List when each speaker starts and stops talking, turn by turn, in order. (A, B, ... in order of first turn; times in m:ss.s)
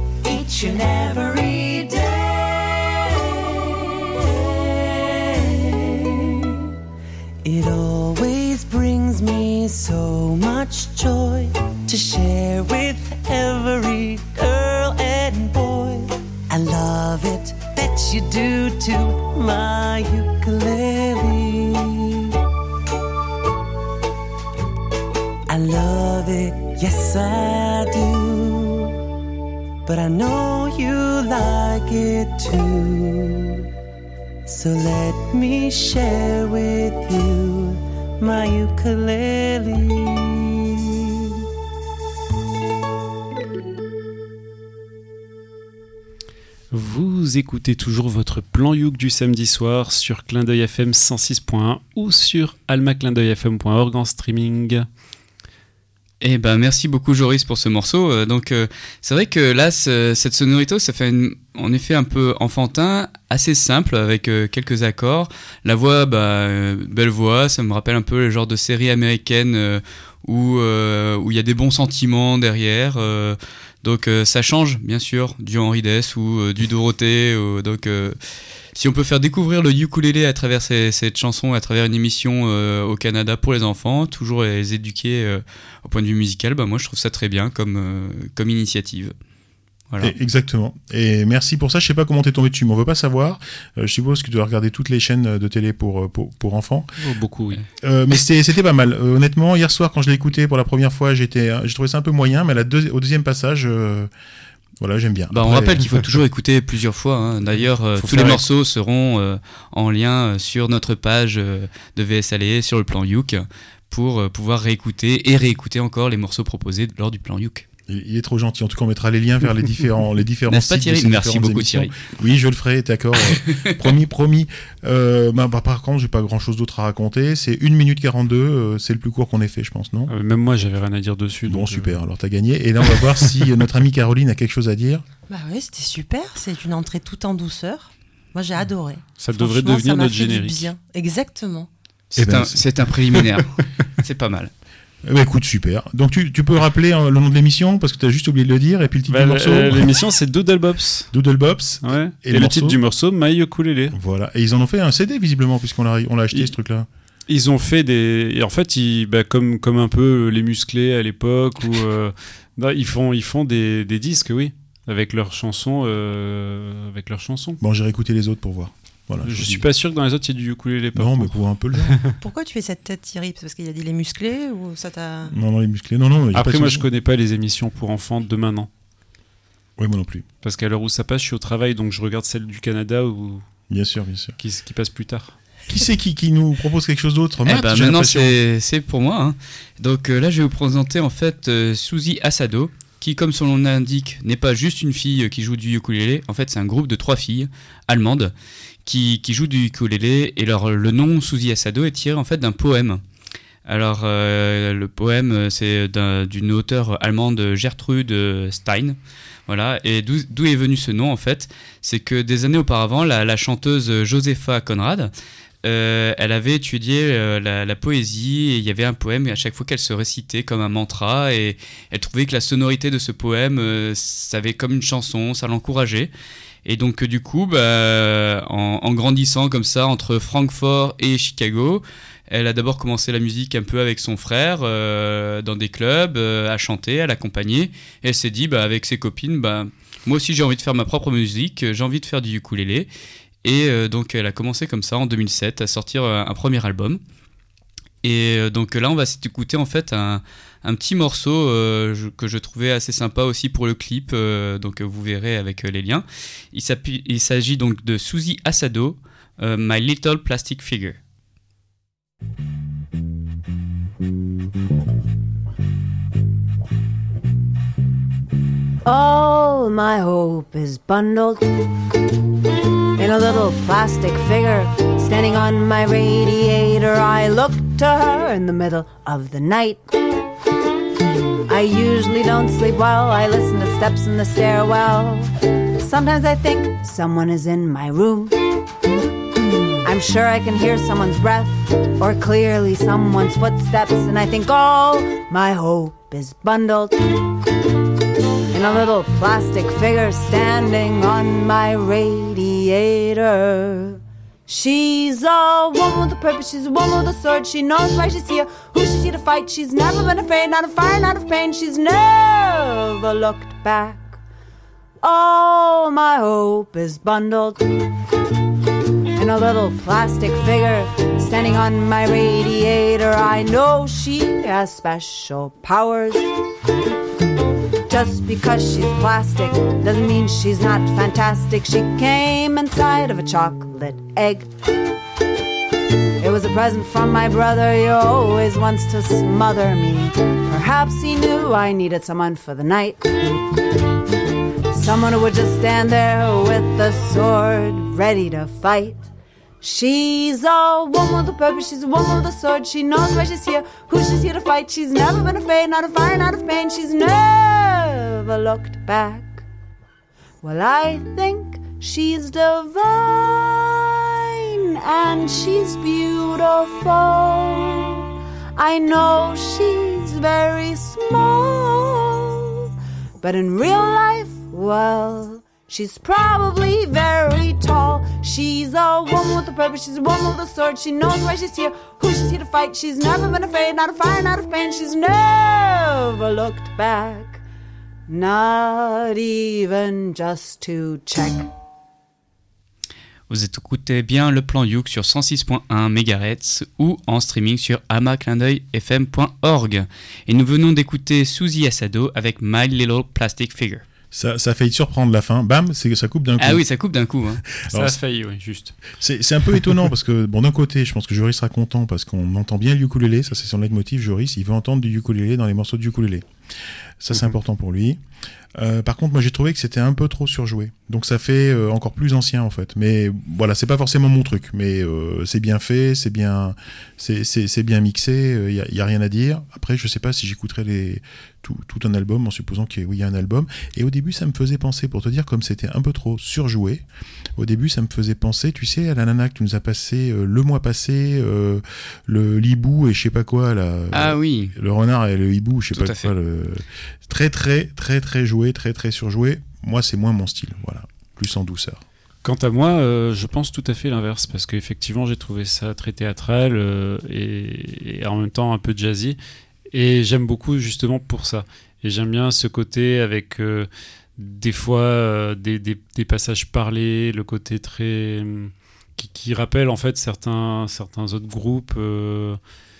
0:00.2-0:06.6 A
0:07.4-0:22.3 A
0:25.5-0:29.0 A
0:29.8-0:33.6 A
0:34.5-0:41.1 A
0:46.7-0:54.9 B
0:56.2-1:18.2 C
1:18.8-1:29.1 C
1:30.0-1:36.9 D
1:37.0-1:37.6 B
1:37.8-1:44.1 D
1:44.8-1:46.2 D
1:45.3-1:57.7 C
1:47.6-1:48.4 B
1:57.9-2:10.1 D
2:00.5-2:01.9 C
2:10.1-2:12.0 B
2:11.5-2:15.0 D
2:12.9-2:13.3 B
2:15.3-2:21.7 E
2:19.2-2:20.7 B
2:22.1-2:24.5 C
2:22.2-2:22.6 D
2:25.0-2:30.0 D
2:29.1-2:31.1 B
2:31.1-2:32.8 D
2:31.8-2:34.0 B
2:33.9-2:36.9 D
2:37.3-2:47.6 B
2:47.6-2:49.6 D
2:49.2-2:52.2 B
2:51.0-2:52.0 D
2:52.2-2:55.3 E
2:55.3-2:56.9 D
2:56.3-2:58.7 B
2:59.8-3:00.2 D
3:00.4-3:03.4 B
3:03.7-3:04.4 D
3:04.4-3:05.4 B
3:05.7-3:08.4 D
3:07.5-3:18.3 C
3:18.8-3:23.0 C
3:23.7-3:35.1 C
3:35.6-3:46.1 C
3:46.6-4:02.9 C
4:03.4-4:07.0 C
4:08.0-4:21.0 C
4:28.8-4:31.5 F
4:33.0-4:39.8 F
4:41.5-4:48.4 F
4:49.8-4:57.0 F
4:58.5-5:14.2 F
5:15.0-5:17.6 F
5:19.2-5:26.3 F
5:27.9-5:34.5 F
5:36.2-5:43.4 F
5:44.7-5:49.0 F
5:49.6-5:59.5 F
6:00.4-6:08.0 F
6:08.6-6:12.6 F
6:13.2-6:27.4 F
6:28.1-6:31.5 F
6:33.3-6:43.8 C
6:44.1-6:46.6 D
6:46.4-6:47.4 C
6:47.6-6:48.0 D
6:47.7-6:48.8 B
6:49.0-6:56.2 D
6:57.0-6:58.0 D
6:58.6-7:16.8 D
7:17.4-7:31.8 D
7:23.9-7:24.5 C
7:25.7-7:26.1 C
7:32.2-7:39.2 B
7:39.7-7:52.4 B